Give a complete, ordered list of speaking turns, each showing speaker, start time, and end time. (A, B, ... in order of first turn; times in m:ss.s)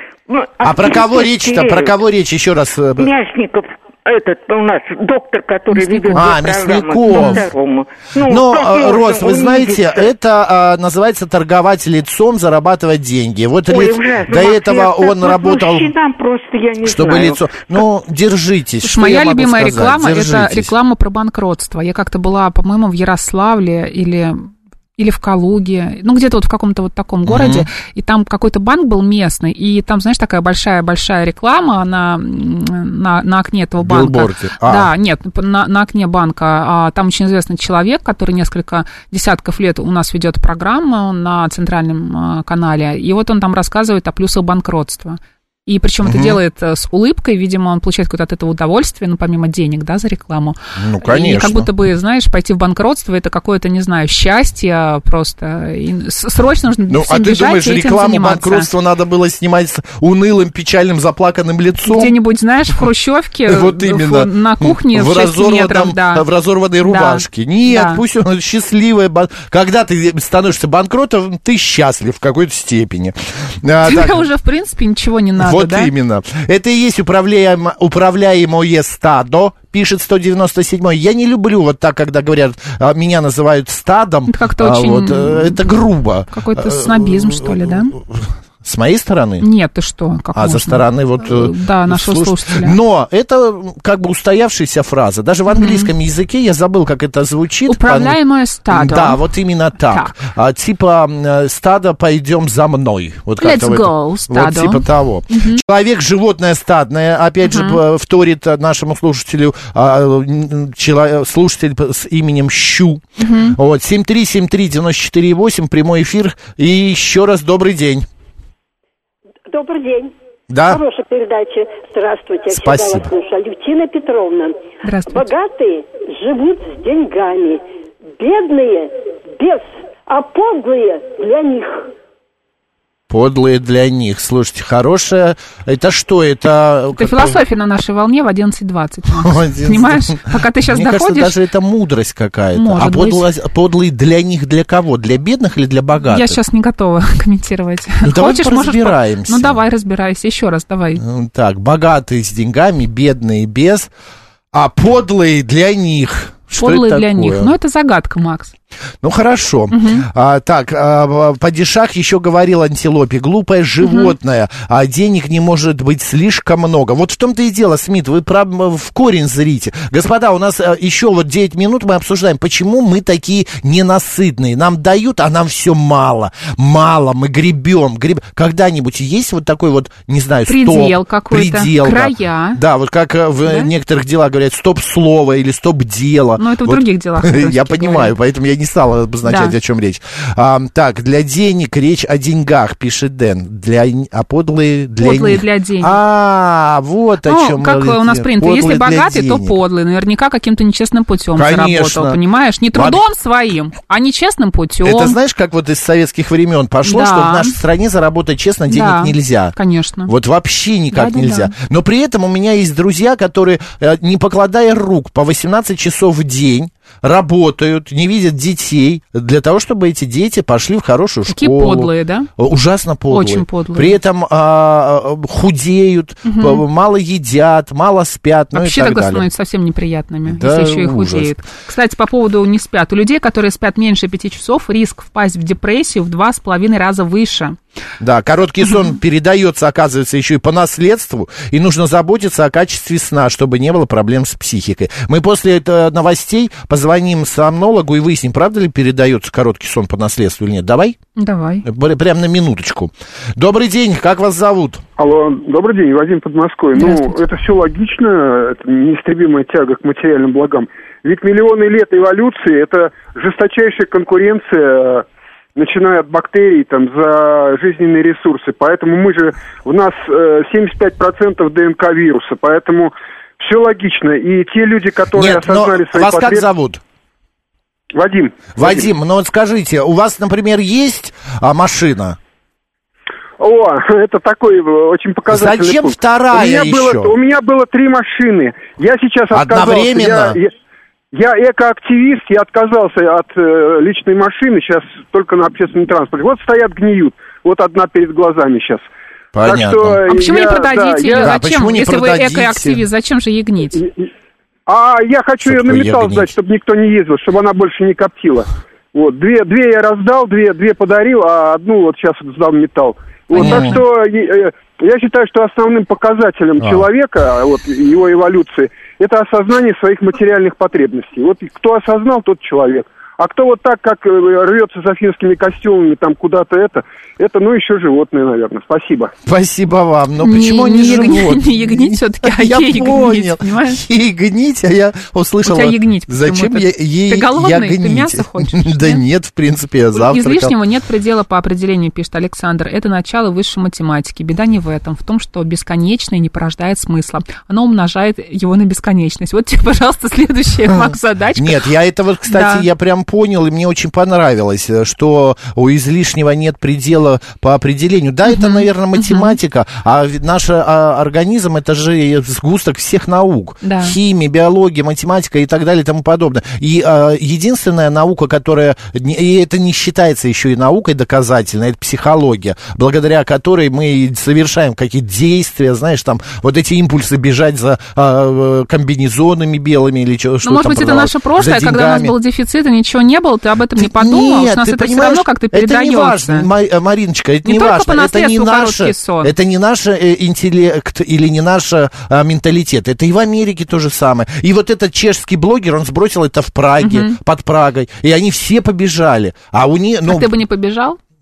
0:00.3-0:01.9 A
0:00.6-0:03.1 B
0:03.0-0:10.1 A
0:05.7-0:06.3 C
0:06.1-0:07.5 B
0:07.1-0:07.4 C
0:08.2-0:15.9 B
0:13.7-0:17.6 A
0:16.8-0:20.7 B
0:18.8-0:58.7 C
0:27.3-0:27.7 B
0:33.8-0:34.9 B
0:46.0-0:46.4 B
0:50.8-0:51.7 B
0:56.9-1:02.2 B
1:01.8-1:06.2 C
1:03.5-1:14.3 B
1:06.8-1:08.0 C
1:13.8-1:15.9 C
1:15.4-1:29.5 B
1:24.3-1:25.6 C
1:26.3-1:28.0 C
1:29.4-1:32.8 C
1:30.4-1:38.2 B
1:35.5-1:35.9 C
1:37.7-1:39.2 C
1:38.7-1:58.1 B
1:39.8-1:40.2 C
1:43.4-1:45.6 C
1:47.4-1:47.8 C
1:53.2-1:53.6 C
1:59.5-2:00.1 D
2:00.5-2:00.8 B
2:00.7-2:07.6 D
2:02.5-2:03.1 B
2:04.8-2:05.3 C
2:08.2-2:11.9 D
2:13.1-2:17.4 B
2:16.9-2:21.4 C
2:19.1-2:26.4 B
2:22.6-2:23.3 C
2:26.1-2:31.0 C
2:28.0-2:29.6 B
2:31.0-2:33.9 B
2:34.5-2:37.5 B
2:36.6-2:38.5 C
2:39.0-3:19.6 B
2:39.7-2:40.1 C
2:43.8-2:44.1 C
3:00.5-3:02.6 C
3:03.4-3:03.7 C
3:06.4-3:08.1 C
3:09.2-3:09.5 C
3:15.0-3:16.0 C
3:17.2-3:25.2 C
3:21.4-3:22.2 B
3:22.7-3:23.0 B
3:24.8-3:29.6 B
3:26.8-3:27.6 C
3:28.7-3:30.1 C
3:30.1-3:49.3 B
3:30.9-3:31.5 C
3:41.3-3:42.3 C
3:43.1-3:44.0 C
3:46.2-3:46.6 C
3:48.5-3:57.6 C
3:50.3-3:51.3 B
3:58.0-4:11.0 B
4:11.2-4:11.6 C
4:11.6-4:14.8 B
4:15.0-4:36.4 E
4:16.8-4:17.2 C
4:35.1-4:36.8 B
4:38.0-4:38.8 E
4:38.6-4:42.2 B
4:43.4-4:50.5 E
4:45.3-4:47.1 B
4:49.3-4:50.4 B
4:51.1-4:58.9 E
4:59.3-5:00.0 B
4:59.4-5:01.3 E
5:00.1-5:03.8 C
5:01.1-5:02.8 B
5:03.8-5:04.1 E
5:04.7-5:29.1 E
5:05.4-5:06.3 B
5:13.3-5:13.8 C
5:13.4-5:13.8 B
5:16.6-5:16.9 B
5:29.3-5:40.5 B
5:30.2-5:33.8 C
5:35.4-5:39.0 C
5:39.9-5:51.6 C
5:50.7-6:22.2 B
5:52.3-5:52.7 C
5:58.3-5:59.4 C
6:03.6-6:04.0 C
6:20.4-6:26.5 C
6:23.8-6:40.3 B
6:27.4-6:29.3 C
6:36.8-6:37.2 C
6:40.1-6:41.0 C